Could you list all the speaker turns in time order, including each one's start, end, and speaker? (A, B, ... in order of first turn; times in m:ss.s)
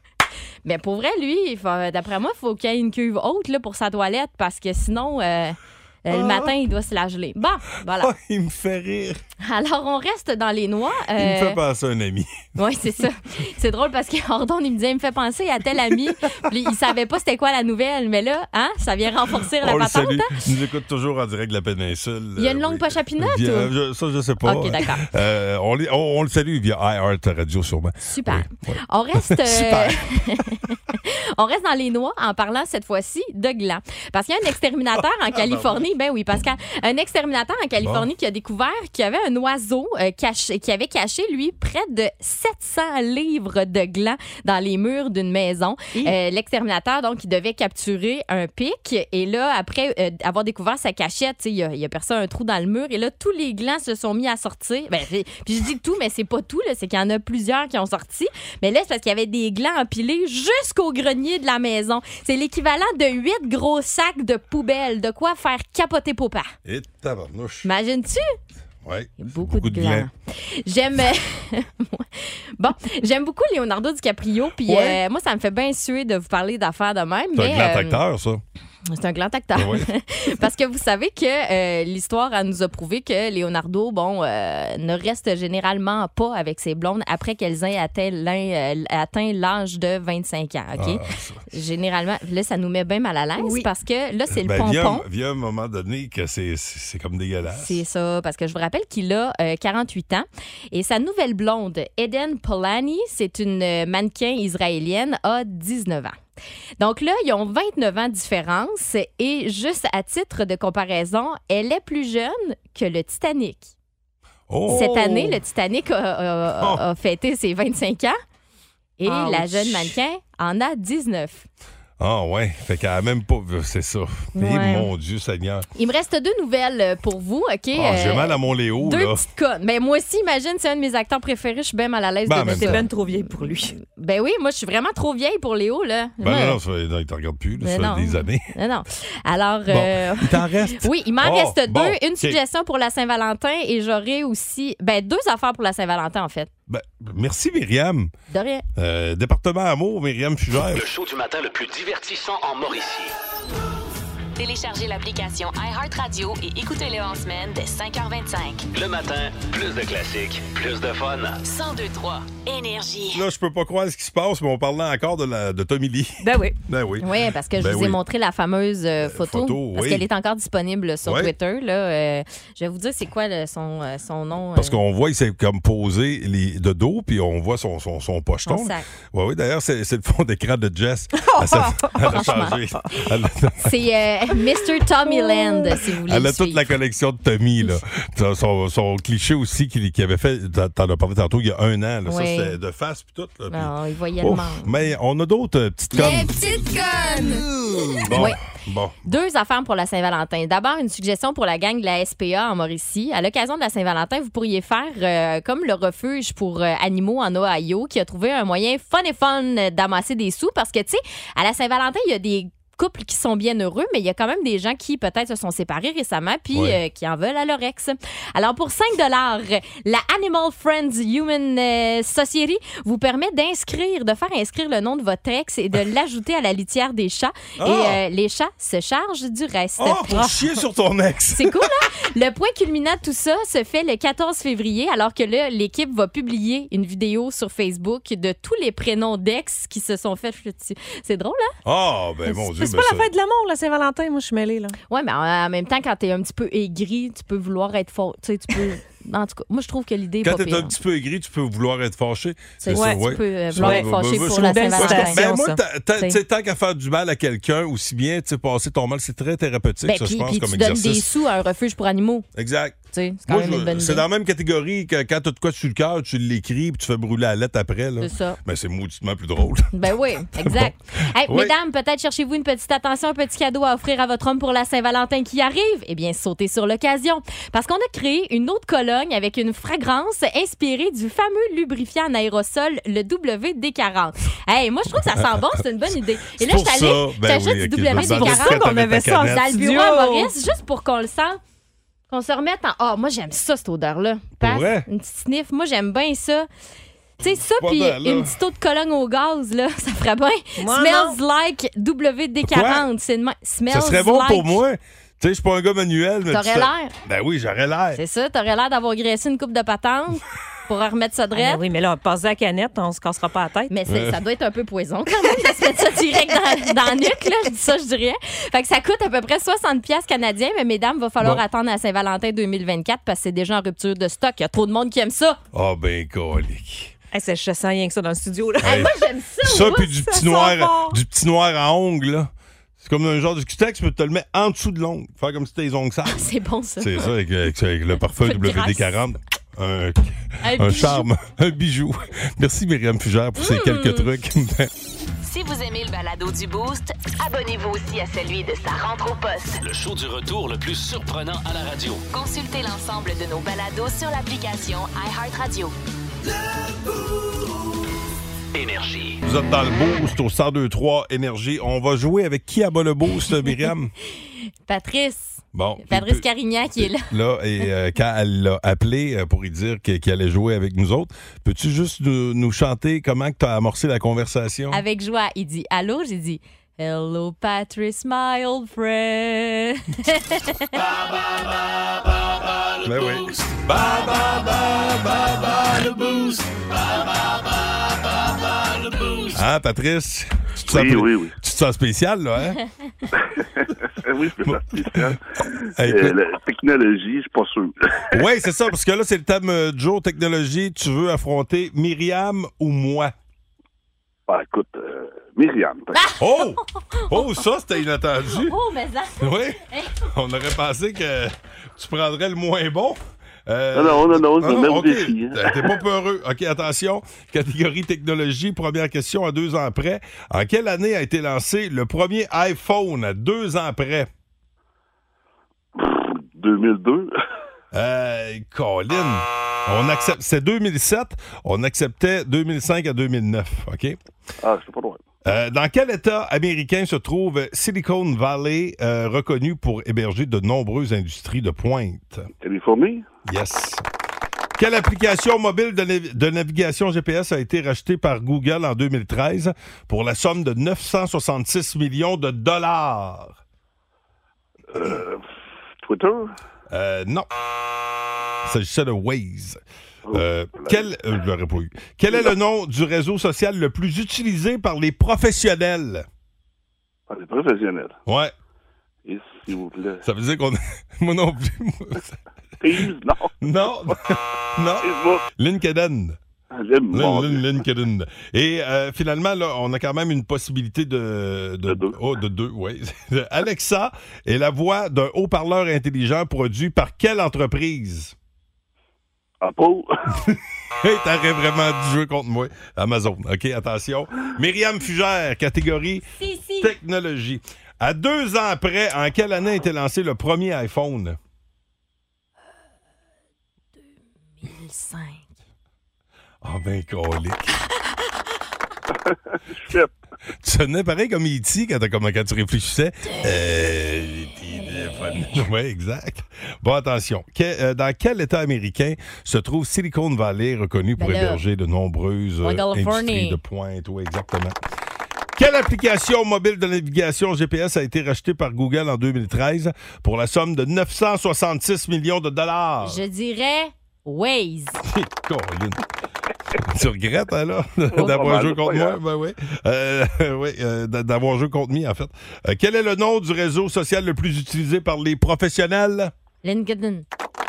0:00.6-0:08.1 A
0:06.1-0:06.6 B
0:07.9-0:09.2 B
0:09.4-0:11.6 A
0:11.2-0:12.5 B
0:12.6-0:20.3 A
0:19.5-0:30.0 B
0:22.4-0:23.7 A
0:24.4-0:25.0 A
0:28.0-1:06.5 A
0:35.0-0:35.8 B
0:37.8-0:38.1 B
1:06.6-1:07.7 B
1:07.6-1:08.3 A
1:08.8-1:10.1 B
1:09.2-1:18.0 A
1:14.6-1:15.0 B
1:17.4-1:18.4 B
1:18.9-1:35.0 A
1:19.6-1:19.9 B
1:30.8-1:31.4 B
1:33.4-1:33.7 C
1:34.3-1:37.8 B
1:37.5-1:46.2 A
1:46.8-1:53.7 A
1:54.5-1:55.4 B
1:54.7-1:58.2 A
1:54.7-1:55.0 C
1:59.0-2:01.4 A
1:59.1-2:00.0 C
2:02.0-2:05.7 B
2:04.4-2:04.9 A
2:05.8-2:16.6 A
2:07.7-2:09.2 B
2:12.3-2:12.8 B
2:12.5-2:13.8 C
2:16.2-2:18.5 B
2:17.6-2:26.5 A
2:19.7-2:22.4 B
2:26.7-2:28.1 B
2:28.3-2:28.6 A
2:28.8-2:30.8 B
2:30.7-2:33.1 D
2:34.4-2:38.7 E
2:38.7-2:41.4 D
2:41.4-2:43.2 E
2:43.1-2:48.0 B
2:46.2-2:46.6 C
2:47.0-2:54.8 A
2:49.0-2:50.1 B
2:51.0-2:51.3 B
2:54.6-3:03.8 B
2:58.5-2:58.8 A
3:01.2-3:02.3 C
3:02.0-3:02.6 A
3:03.6-3:06.7 A
3:05.2-3:05.8 C
3:06.1-3:16.4 B
3:12.1-3:12.6 A
3:13.5-3:14.7 A
3:18.0-3:19.0 B
3:18.1-3:18.4 A
3:19.0-3:50.3 A
3:36.5-3:36.8 B
3:47.6-3:48.0 B
3:49.8-3:51.7 B
3:51.4-4:01.5 A
4:01.6-4:03.1 B
4:02.3-4:04.8 C
4:04.9-4:10.8 A
4:10.2-4:21.1 B
4:12.6-4:15.3 A
4:12.7-4:15.6 C
4:19.8-4:22.3 A
4:22.4-4:29.7 B
4:22.9-4:24.0 A
4:28.0-4:28.4 A
4:29.7-4:51.4 A
4:30.4-4:31.5 B
4:46.4-4:49.7 B
4:47.9-4:50.3 C
4:52.1-4:56.5 A
4:54.4-4:54.9 B
4:57.2-5:04.6 A
4:57.3-4:58.4 B
5:00.6-5:01.2 C
5:02.5-5:02.9 B
5:03.7-5:08.0 B
5:06.3-5:06.9 A
5:08.0-5:11.6 A
5:11.3-5:13.7 C
5:13.7-5:25.4 A
5:13.9-5:14.2 B
5:25.5-5:26.9 B
5:27.1-5:31.0 C
5:28.6-5:36.3 B
5:28.6-5:29.9 A
5:36.1-5:37.1 A
5:36.8-5:44.7 B
5:38.2-5:39.0 A
5:40.4-5:41.1 A
5:43.4-5:44.1 A
5:45.2-5:49.6 E
5:49.6-5:52.0 D
5:52.1-5:55.7 E
5:58.5-5:59.2 D
5:59.2-6:03.9 B
6:04.7-6:07.1 A
6:05.5-6:06.3 B
6:06.8-6:14.8 B
6:14.7-6:20.8 A
6:22.8-6:25.5 B
6:29.3-6:32.6 B
6:30.7-6:31.3 F
6:33.2-6:38.2 F
6:34.5-6:35.1 B
6:35.8-6:36.2 B
6:38.1-6:43.1 B
6:44.3-6:46.0 F
6:46.0-6:47.2 A
6:46.2-6:48.6 B
6:48.3-6:50.0 A
6:49.2-7:04.1 B
6:53.8-6:55.7 F
7:05.8-7:07.1 F
7:07.7-7:14.0 B
7:14.4-7:15.0 F
7:15.2-7:22.3 B
7:22.4-7:23.0 F
7:23.3-7:23.8 B
7:24.6-7:33.4 B
7:34.7-7:35.2 F
7:35.8-7:36.3 F
7:36.7-7:37.3 B
7:38.4-7:46.1 B
7:40.1-7:40.9 F
7:47.1-7:48.0 F
7:48.1-7:48.3 B
7:49.0-7:50.0 F
7:50.0-7:52.2 B
7:52.6-7:53.6 F
7:53.4-7:56.2 B
7:54.8-7:55.2 F
7:56.6-7:57.5 F
7:56.9-8:08.2 B
8:01.7-8:02.0 F
8:09.4-8:09.9 F
8:10.3-8:16.1 B
8:16.2-8:16.7 A
8:16.6-8:21.2 B
8:24.4-8:25.2 A
8:26.4-8:27.6 B
8:28.9-8:29.9 F
8:30.4-8:44.6 B
8:41.0-8:41.4 A
8:42.4-8:43.4 A
8:45.4-8:53.0 B
8:52.8-8:54.8 A
8:54.8-8:55.8 B
8:56.6-9:06.1 B
8:57.9-8:59.0 F
9:06.4-9:07.1 A